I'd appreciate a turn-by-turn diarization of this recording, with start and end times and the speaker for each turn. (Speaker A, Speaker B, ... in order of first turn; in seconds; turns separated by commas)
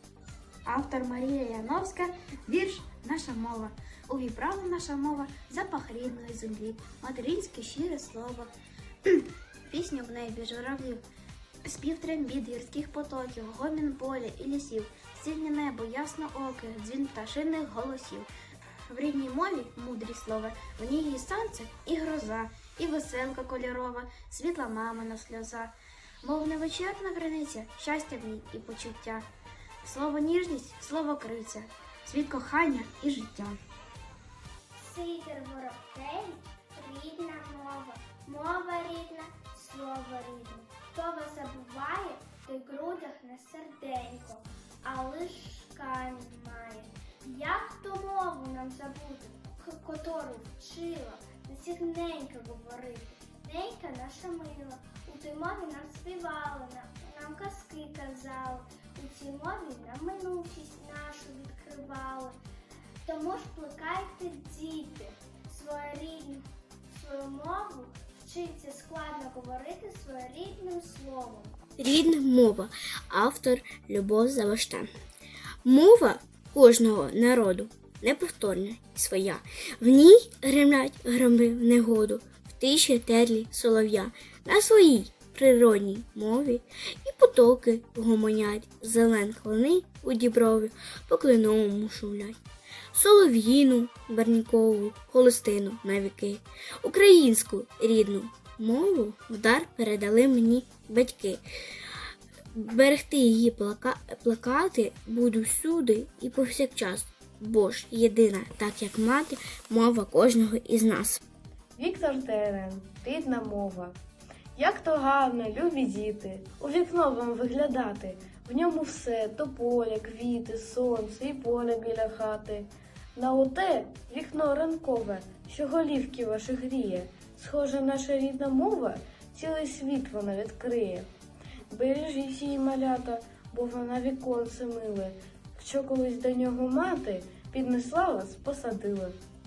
Speaker A: 0.7-8.5, Speaker A: 9.7-11.0, Speaker A: 11.6-18.3, Speaker A: 18.9-29.3, Speaker A: 29.8-33.6, Speaker B: 34.8-62.4, Speaker B: 63.0-71.6, Speaker A: 71.8-72.5, Speaker C: 71.8-74.8, Speaker A: 73.5-74.8, Speaker A: 75.7-85.4, Speaker C: 76.5-77.9, Speaker C: 78.5-79.0, Speaker C: 80.7-92.4, Speaker A: 89.9-90.3, Speaker C: 93.0-101.4, Speaker C: 102.5-111.2, Speaker D: 111.8-114.0, Speaker D: 114.6-131.1, Speaker D: 131.7-139.2